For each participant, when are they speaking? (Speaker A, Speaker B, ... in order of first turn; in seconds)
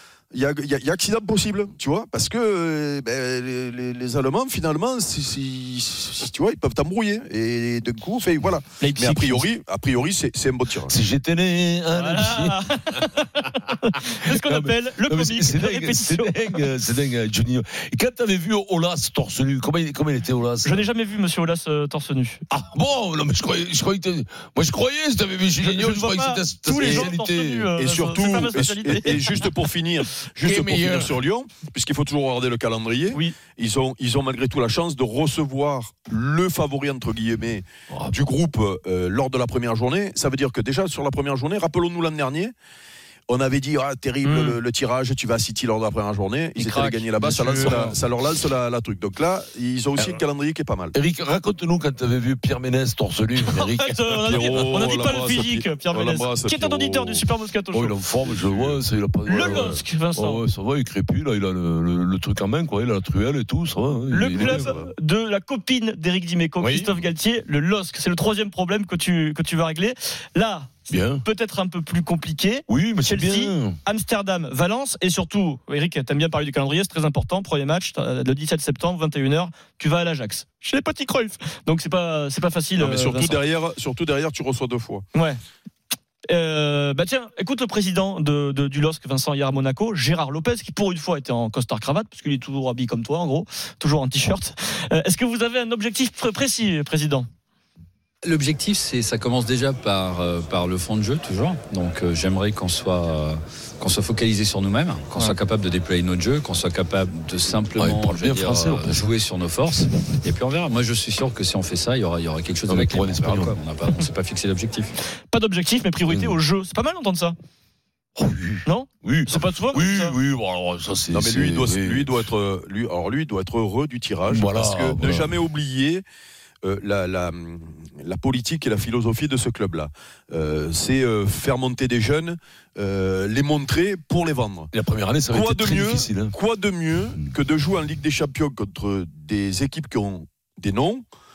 Speaker A: 0.3-10.9, 26.7-27.1, 27.8-42.5, 43.3-51.0, 54.3-57.3, 58.2-58.8, 64.3-64.9, 82.8-85.0, 121.1-126.0, 126.6-134.7, 135.3-141.0
Speaker B: 8.8-9.5, 11.9-16.6, 20.6-22.4, 25.6-29.5, 44.2-44.6, 46.6-48.0, 53.5-57.9, 59.3-60.4, 64.1-83.4, 85.1-85.4, 86.3-97.3, 115.3-117.3, 118.7-120.2
Speaker C: 10.9-13.1, 14.3-20.9, 22.5-27.7, 30.4-31.2, 47.4-47.9, 50.0-50.2, 50.9-55.0, 57.7-64.8, 66.6-67.0, 70.9-71.2, 72.7-73.8, 107.8-109.0, 112.7-113.6, 116.1-116.4, 118.2-122.3, 124.3-125.3, 134.7-136.3
Speaker D: 98.2-114.9